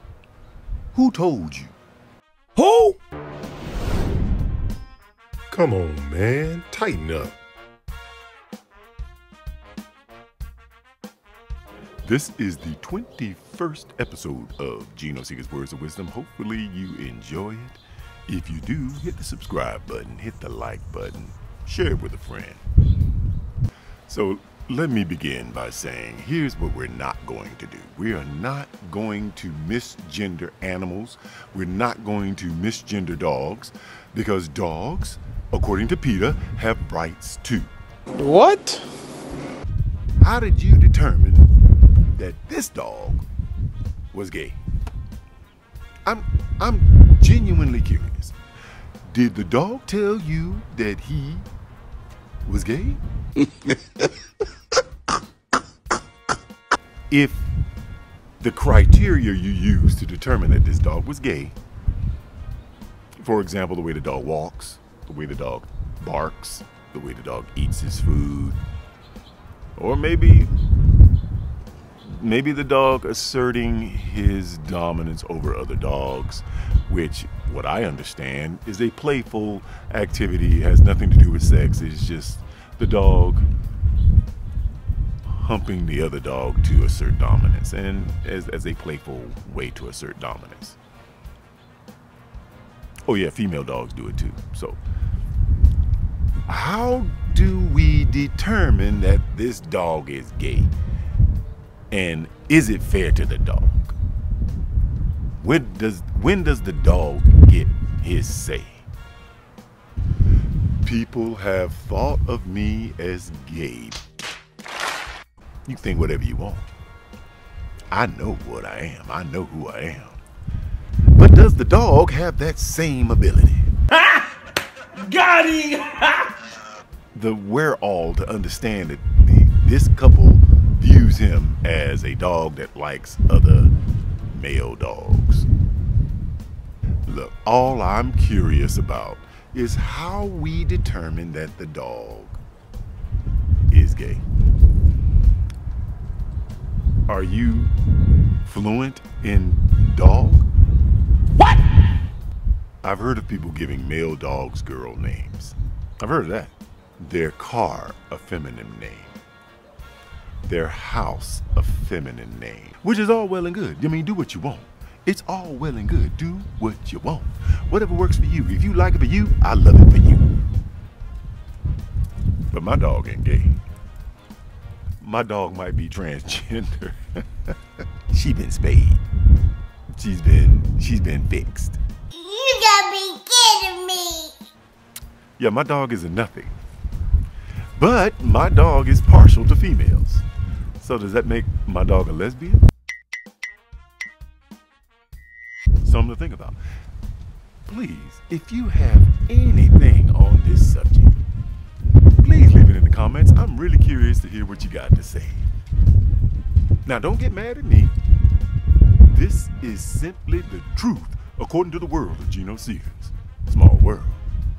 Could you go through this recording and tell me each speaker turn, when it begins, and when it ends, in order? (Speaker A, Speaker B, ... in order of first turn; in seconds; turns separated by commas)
Speaker A: 0.9-1.7, Speaker B: 2.5-3.0, Speaker A: 5.5-7.3, Speaker B: 5.7-6.0, Speaker A: 12.0-22.6, Speaker A: 24.1-37.7, Speaker B: 38.1-38.9, Speaker A: 40.2-41.5, Speaker A: 42.1-43.2, Speaker A: 44.1-44.6, Speaker A: 46.0-48.3, Speaker A: 49.0-51.5, Speaker A: 52.5-53.0, Speaker A: 57.1-57.5, Speaker A: 58.4-61.5, Speaker A: 63.2-68.6, Speaker A: 69.8-70.5, Speaker A: 72.0-83.5, Speaker A: 85.3-90.8, Speaker A: 93.0-94.8, Speaker A: 96.5-100.7, Speaker A: 101.9-103.9, Speaker A: 105.4-108.8, Speaker A: 110.8-114.0, Speaker A: 115.7-116.7, Speaker A: 117.9-120.2, Speaker A: 121.1-123.7, Speaker B: 123.9-124.3, Speaker B: 124.9-126.3, Speaker A: 127.1-133.7, Speaker A: 134.3-135.5, Speaker A: 137.1-142.4, Speaker A: 143.7-144.2, Speaker A: 147.1-147.7, Speaker A: 148.4-150.5, Speaker A: 152.8-159.2, Speaker A: 160.4-170.2, Speaker A: 172.5-173.6, Speaker A: 175.0-177.5, Speaker A: 178.1-179.0, Speaker A: 179.9-181.8, Speaker C: 182.1-184.3, Speaker A: 185.4-186.6, Speaker A: 187.8-190.2, Speaker A: 190.8-192.6, Speaker A: 195.8-196.6, Speaker A: 197.6-201.2, Speaker A: 202.2-205.5, Speaker A: 206.8-207.9, Speaker A: 209.1-214.2